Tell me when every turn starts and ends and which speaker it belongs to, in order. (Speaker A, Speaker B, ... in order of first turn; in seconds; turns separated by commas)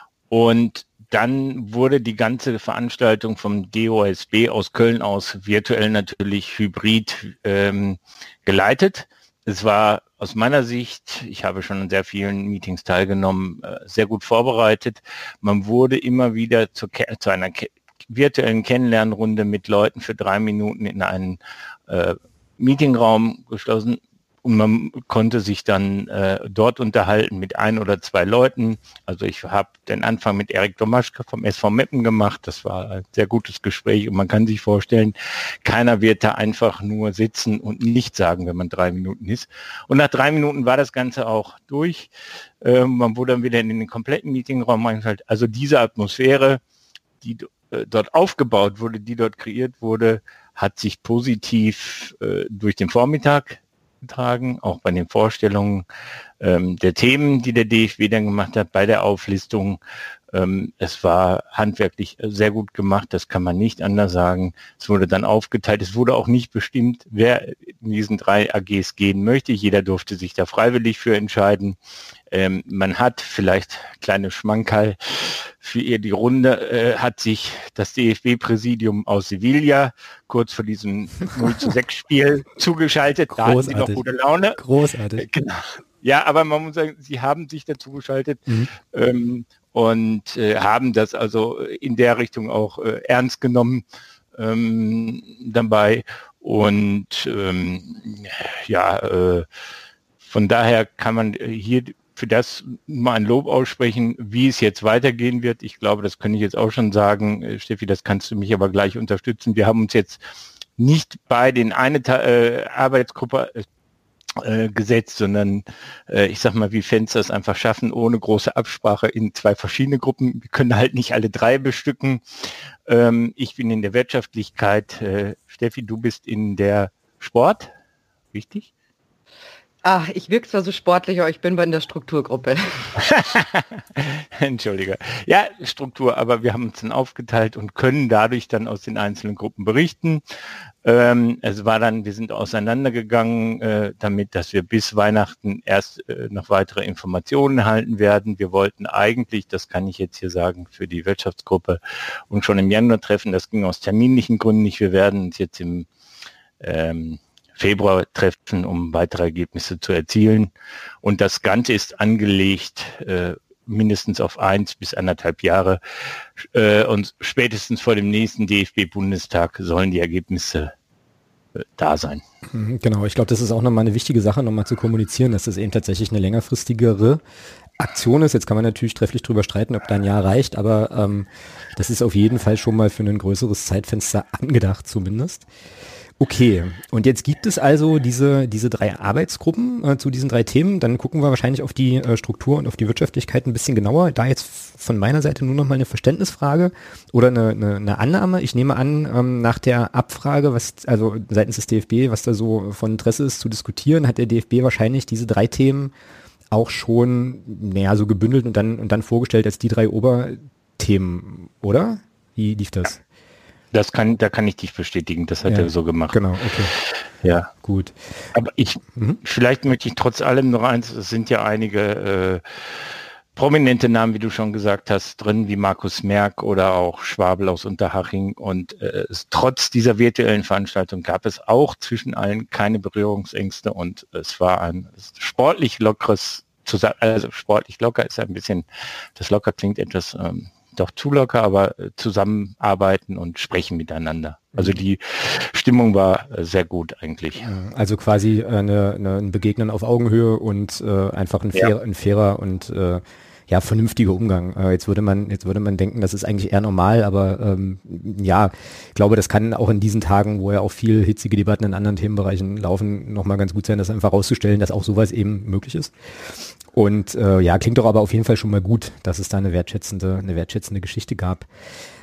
Speaker A: 0.3-42.1, Speaker A: 42.6-46.6, Speaker A: 47.2-55.8, Speaker A: 56.4-59.8, Speaker A: 60.3-71.8, Speaker A: 72.3-84.6, Speaker B: 81.4-81.7, Speaker B: 83.3-84.0, Speaker B: 84.5-85.3, Speaker A: 85.2-93.8, Speaker A: 94.3-99.5, Speaker A: 100.2-110.2, Speaker A: 110.8-113.6, Speaker A: 114.4-122.2, Speaker A: 122.9-127.7, Speaker A: 128.3-128.7, Speaker C: 129.8-132.9, Speaker A: 133.0-140.2, Speaker A: 140.8-155.9, Speaker A: 156.6-160.5, Speaker A: 161.0-165.8, Speaker A: 166.4-170.7, Speaker A: 171.6-172.2, Speaker B: 172.5-177.2, Speaker B: 177.8-185.4, Speaker B: 186.2-205.9, Speaker B: 206.5-213.0, Speaker A: 213.7-216.2, Speaker B: 215.5-216.7, Speaker A: 216.8-217.5, Speaker B: 217.6-217.9, Speaker A: 218.3-238.6, Speaker B: 218.9-219.2, Speaker A: 239.2-247.5, Speaker B: 247.3-265.9, Speaker B: 266.7-271.5